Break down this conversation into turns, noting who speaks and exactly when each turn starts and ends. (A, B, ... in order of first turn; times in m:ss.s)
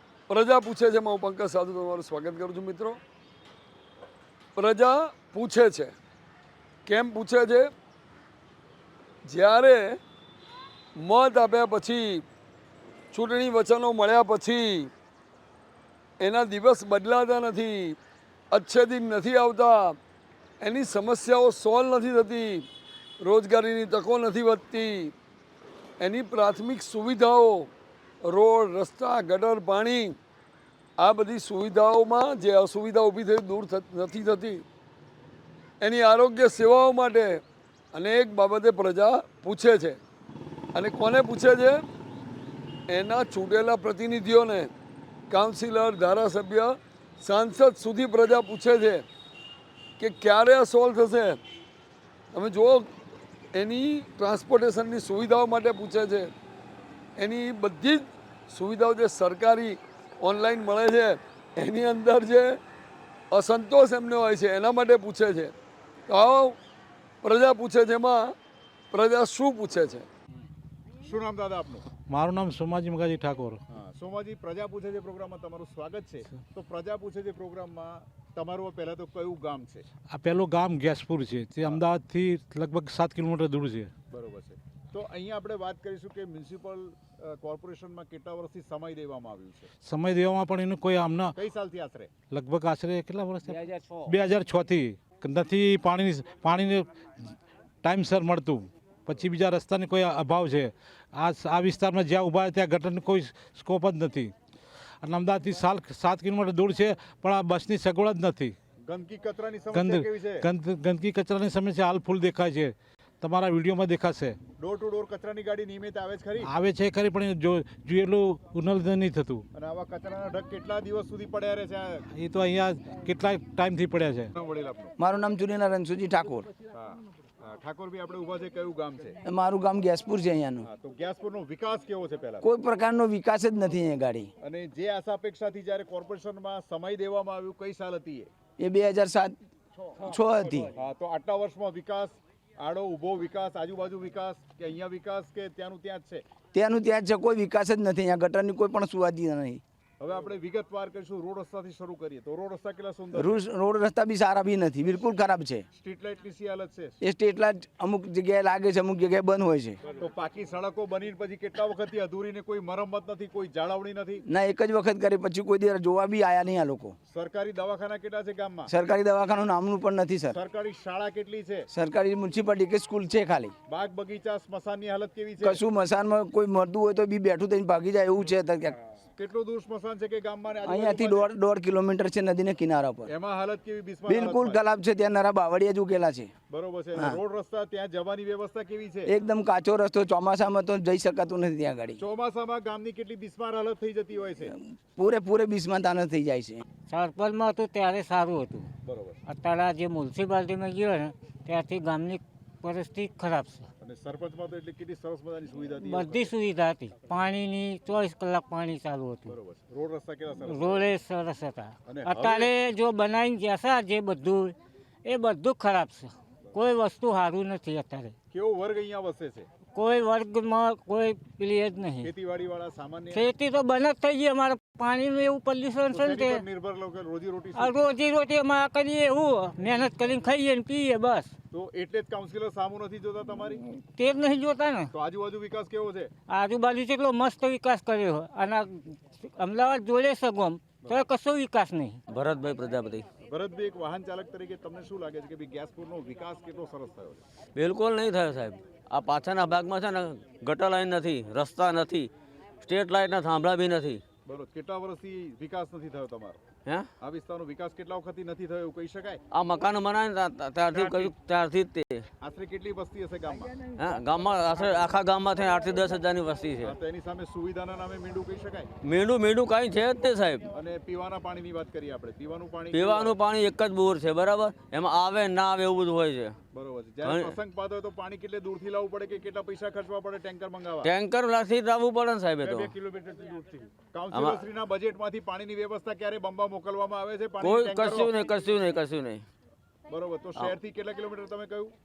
0:00.3-0:03.0 A
0:04.5-0:05.9 A
0:06.8-0:07.7 A
0:09.2-0:10.0 A
0:11.0-0:12.2 A
0:13.1-0:14.9 A
0:16.2-0:18.0 A
0:18.5-0:20.0 A
0:20.6-0:22.6 A
0:23.2-0:25.1 A
0:26.0-0:27.7 A
0:28.2-0:30.2 A
0:31.0-0:34.6 A
0:35.8-0:37.4 A
0:37.9-0:40.0 A
0:40.7-0:41.8 A
0:42.9-0:44.7 A
0:45.3-0:49.0 A
0:50.0-0:51.4 A
0:52.3-0:52.9 A
0:53.5-0:56.3 A
0:57.2-1:02.6 A
1:03.3-1:05.5 A
1:06.1-1:06.6 A
1:07.2-1:08.3 A
1:08.9-1:10.0 A
1:11.0-1:11.8 B
1:12.1-1:13.6 C
1:13.7-1:19.8 B
1:20.1-1:23.9 C
1:24.1-1:29.7 B
1:29.8-1:31.3 C
1:31.4-1:32.1 B
1:32.3-1:36.9 C
1:37.8-1:44.3 C
1:45.0-1:48.5 C
1:48.8-1:50.4 B
1:49.7-1:54.4 C
1:54.6-1:56.5 B
1:56.4-1:59.4 C
1:59.5-2:02.0 B
2:02.1-2:04.3 C
2:04.3-2:04.9 B
2:05.0-2:06.5 D
2:06.7-2:09.2 B
2:09.2-2:10.7 D
2:10.6-2:12.4 B
2:12.4-2:14.3 D
2:14.4-2:18.3 B
2:18.6-2:19.4 D
2:20.0-2:20.7 D
2:20.7-2:26.2 B
2:26.5-2:29.6 D
2:30.0-2:33.4 B
2:33.1-2:35.6 D
2:35.7-2:37.0 B
2:37.0-2:39.8 D
2:40.0-2:44.2 B
2:44.2-2:46.9 D
2:47.1-2:48.7 B
2:48.7-2:50.4 D
2:50.3-2:51.7 B
2:51.7-2:53.5 D
2:53.7-2:55.6 B
2:55.4-2:58.8 D
2:59.2-3:01.3 B
3:00.6-3:03.1 D
3:03.1-3:04.6 B
3:04.1-3:06.3 D
3:06.5-3:09.1 B
3:09.1-3:12.0 D
3:12.0-3:14.5 B
3:15.0-3:16.6 D
3:16.9-3:18.7 E
3:18.8-3:19.2 B
3:19.2-3:23.7 E
3:23.8-3:26.3 B
3:25.8-3:29.4 E
3:29.3-3:30.9 B
3:30.4-3:38.1 E
3:31.8-3:32.5 B
3:38.3-3:39.5 B
3:39.7-3:42.1 E
3:42.0-3:43.3 B
3:43.1-3:46.4 E
3:45.9-3:47.8 B
3:47.5-3:51.3 E
3:51.5-3:53.6 B
3:53.9-3:54.9 E
3:54.9-3:56.1 B
3:56.3-4:02.0 E
4:02.1-4:03.0 F
4:03.3-4:07.2 B
4:07.5-4:12.1 F
4:12.6-4:14.0 F
4:14.2-4:16.4 B
4:17.0-4:19.2 B
4:19.3-4:22.0 F
4:20.7-4:21.1 B
4:22.2-4:23.6 B
4:23.8-4:26.8 F
4:26.6-4:28.7 B
4:28.8-4:30.5 F
4:30.5-4:33.2 B
4:32.7-4:36.3 F
4:36.5-4:40.9 B
4:37.0-4:37.4 F
4:40.8-4:42.7 F
4:42.4-4:48.2 B
4:44.1-4:44.4 F
4:47.4-4:49.2 F
4:49.9-4:51.7 B